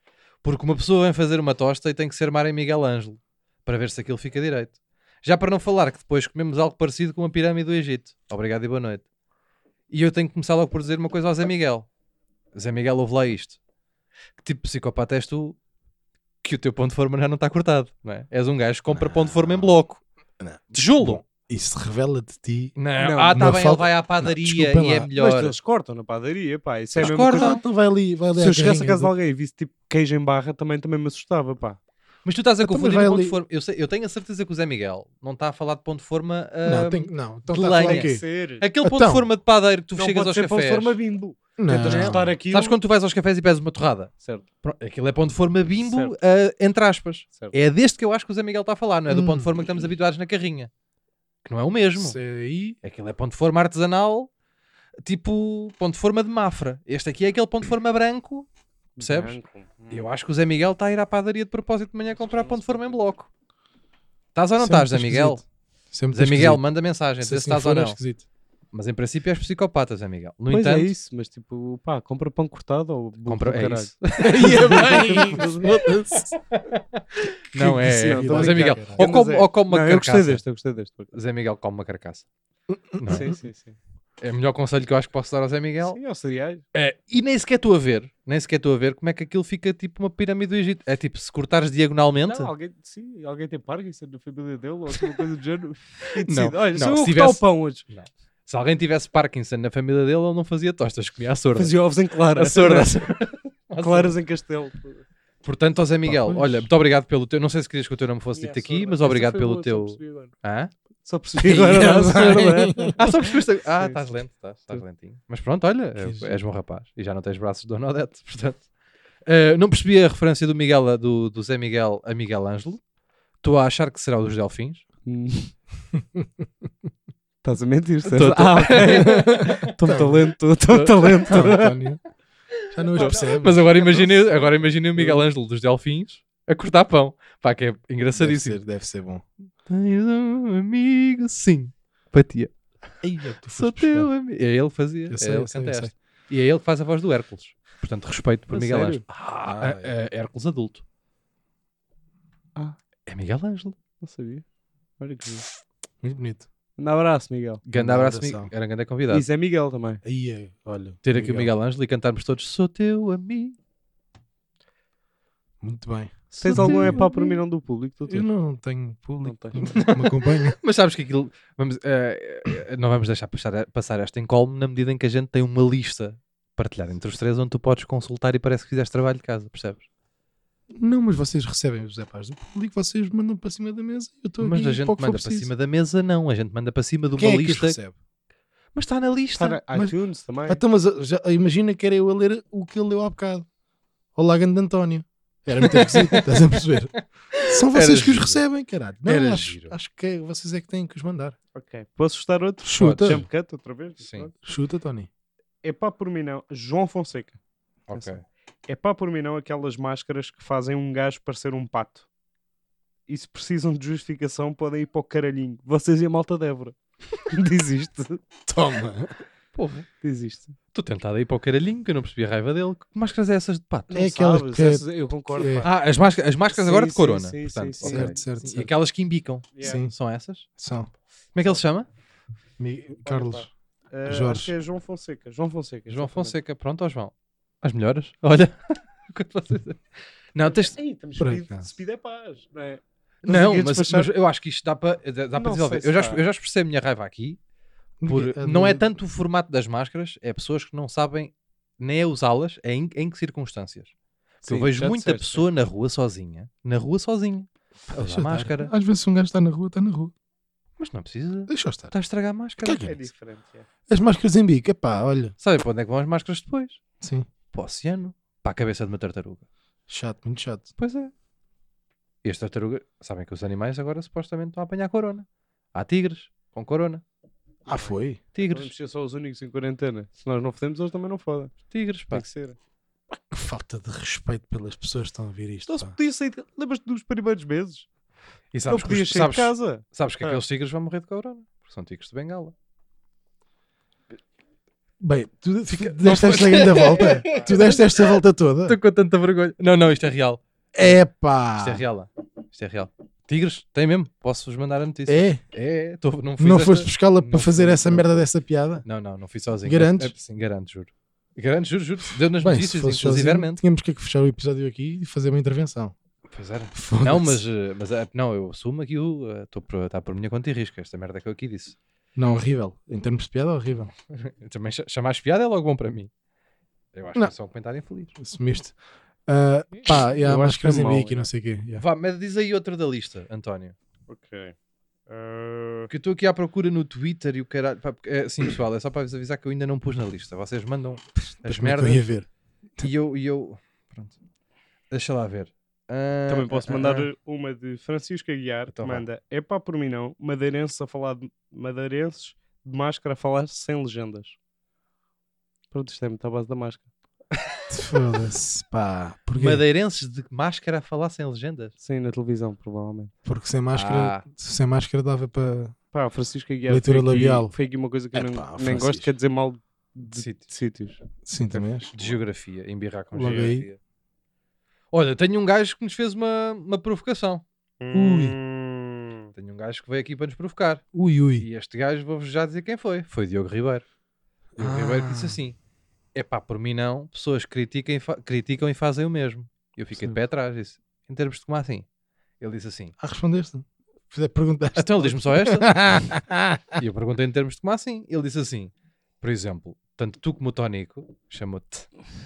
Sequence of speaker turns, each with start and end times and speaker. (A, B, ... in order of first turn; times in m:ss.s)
0:00.4-0:09.0 A
0:09.9-0:11.9 A
0:12.5-0:13.6 A
0:14.4-0:15.6 A
0:16.4-0:20.0 A
0:18.9-0:19.8 B
0:20.4-0:22.8 B
0:20.7-0:21.2 A
0:22.8-0:25.6 A
0:23.0-0:23.5 C
0:23.3-0:25.1 B
0:25.1-0:27.6 C
0:27.0-0:27.6 A
0:27.0-0:29.1 B
0:28.4-0:31.8 C
0:32.2-0:41.0 A
0:32.6-0:33.4 B
0:36.6-0:38.2 B
0:37.7-0:38.6 C
0:38.8-0:39.3 B
0:40.0-0:42.8 C
0:41.6-0:42.4 B
0:41.8-0:50.7 A
0:45.8-0:46.2 C
0:49.1-0:49.5 B
0:51.4-0:52.2 A
0:52.0-0:52.8 B
0:52.8-0:54.3 A
0:55.0-0:58.5 A
0:59.0-1:00.1 C
0:59.0-0:59.4 A
0:59.9-1:03.3 A
1:02.2-1:02.9 C
1:04.4-1:05.4 A
1:04.6-1:05.4 B
1:05.9-1:06.6 B
1:06.1-1:08.0 A
1:07.2-1:08.2 B
1:08.7-1:10.9 A
1:10.5-1:15.8 C
1:13.3-1:15.4 A
1:14.2-1:16.4 B
1:16.5-1:20.4 A
1:17.5-1:19.0 B
1:17.9-1:21.1 C
1:21.1-1:22.2 A
1:22.7-1:23.4 B
1:23.0-1:23.3 A
1:23.1-1:23.8 C
1:24.2-1:26.0 A
1:25.8-1:26.6 C
1:26.7-1:32.5 A
1:32.2-1:37.8 C
1:36.2-1:41.8 A
1:41.6-1:43.1 C
1:42.3-1:44.2 A
1:43.8-1:45.0 C
1:45.4-1:50.7 A
1:46.0-1:46.7 B
1:48.3-1:50.3 C
1:51.0-1:53.0 C
1:51.4-1:53.0 B
1:52.9-1:58.6 A
1:56.0-1:56.4 B
1:59.2-2:02.8 A
2:03.4-2:04.8 A
2:05.1-2:05.6 C
2:05.9-2:06.4 B
2:07.4-2:11.7 C
2:08.1-2:09.4 A
2:09.0-2:10.2 B
2:10.7-2:11.5 A
2:11.2-2:12.0 B
2:12.7-2:13.8 B
2:13.0-2:18.6 A
2:13.0-2:13.2 C
2:13.8-2:15.2 C
2:18.1-2:19.2 B
2:19.7-2:22.5 A
2:23.0-2:24.1 B
2:23.6-2:30.8 A
2:25.1-2:25.9 B
2:28.5-2:29.0 C
2:29.4-2:29.9 B
2:33.1-2:33.8 A
2:34.0-2:34.4 C
2:35.0-2:35.5 C
2:36.0-2:36.5 B
2:36.8-2:37.6 C
2:37.7-2:39.3 A
2:37.8-2:38.5 B
2:39.1-2:40.0 C
2:40.0-2:41.5 B
2:41.0-2:43.6 A
2:45.6-2:47.4 B
2:46.3-2:48.3 C
2:46.5-2:47.0 A
2:48.1-2:50.6 B
2:49.2-2:49.9 C
2:49.8-2:59.8 A
3:00.7-3:05.5 B
3:04.4-3:07.8 A
3:07.2-3:07.9 B
3:08.8-3:09.6 A
3:09.4-3:10.6 C
3:10.5-3:13.5 B
3:14.2-3:21.4 B
3:15.6-3:16.4 A
3:17.3-3:18.4 A
3:19.1-3:19.8 A
3:21.6-3:24.3 C
3:22.6-3:23.2 B
3:22.8-3:23.2 A
3:24.0-3:24.3 A
3:24.4-3:25.1 B
3:25.6-3:27.4 C
3:27.9-3:28.2 A
3:28.7-3:32.1 C
3:33.1-3:38.2 C
3:38.5-3:39.1 B
3:39.6-3:39.9 A
3:40.0-3:40.6 C
3:40.7-3:43.9 A
3:43.9-3:45.7 C
3:43.9-3:45.7 B
3:45.6-3:50.5 A
3:46.5-3:48.2 C
3:47.8-3:48.7 B
3:49.5-3:49.8 C
3:49.6-3:49.9 B
3:50.6-3:50.9 B
3:51.4-3:51.9 A
3:52.6-3:53.5 B
3:53.0-3:56.4 C
3:54.1-3:54.5 B
3:55.9-3:59.8 A
4:00.3-4:00.8 A
4:00.4-4:04.1 C
4:01.2-4:01.7 B
4:03.2-4:07.4 A
4:05.4-4:06.2 C
4:08.0-4:08.8 B
4:08.1-4:13.9 A
4:14.4-4:15.5 C
4:14.4-4:18.7 A
4:17.9-4:20.1 B
4:20.8-4:22.9 A
4:21.5-4:21.9 B
4:22.6-4:23.0 B
4:22.8-4:23.7 C
4:23.9-4:25.4 B
4:25.4-4:26.8 A
4:27.0-4:27.3 B
4:27.5-4:29.4 A
4:29.9-4:30.7 B
4:30.8-4:31.1 A
4:32.2-4:37.0 A
4:37.7-4:38.2 B
4:37.8-4:41.6 C
4:38.4-4:38.7 A
4:41.7-4:42.2 A
4:42.1-4:42.6 C
4:43.1-4:46.0 B
4:45.7-4:47.9 C
4:48.5-4:52.5 A
4:48.7-4:50.4 C
4:55.0-4:58.8 B
4:55.8-4:57.6 A
4:58.7-5:01.0 A
5:00.8-5:01.8 B
5:01.6-5:08.3 A
5:05.1-5:05.4 B
5:06.4-5:08.8 B
5:08.8-5:13.6 A
5:09.6-5:10.1 B
5:12.4-5:16.0 B
5:16.3-5:21.8 A
5:16.7-5:17.4 B
5:22.2-5:23.9 B
5:24.1-5:26.1 A
5:26.9-5:28.1 A
5:28.2-5:28.8 B
5:29.3-5:31.8 B
5:30.2-5:31.3 C
5:31.8-5:33.8 A
5:34.1-5:34.6 C
5:35.1-5:35.9 C
5:35.9-5:42.1 A
5:41.4-5:42.3 B
5:42.8-5:44.2 A
5:44.9-5:47.1 A
5:46.3-5:54.4 C
5:48.7-5:49.0 A
5:55.7-5:56.9 C
5:57.3-5:57.6 A
5:57.7-5:59.6 B
5:59.3-6:01.7 A
6:01.8-6:03.1 C
6:03.2-6:05.8 B
6:03.8-6:04.2 A
6:05.9-6:11.0 C
6:06.7-6:07.5 B
6:08.1-6:09.1 B
6:10.2-6:10.4 A
6:11.2-6:12.1 B
6:12.0-6:13.8 A
6:13.1-6:13.7 B
6:14.9-6:17.4 A
6:17.8-6:19.3 C
6:17.9-6:18.4 B
6:19.4-6:20.8 A
6:20.9-6:21.5 B
6:21.4-6:23.8 A
6:24.6-6:25.4 B
6:24.6-6:25.6 A
6:26.2-6:31.9 A
6:32.4-6:32.9 A
6:33.0-6:36.8 B
6:34.8-6:35.7 A
6:36.8-6:41.9 A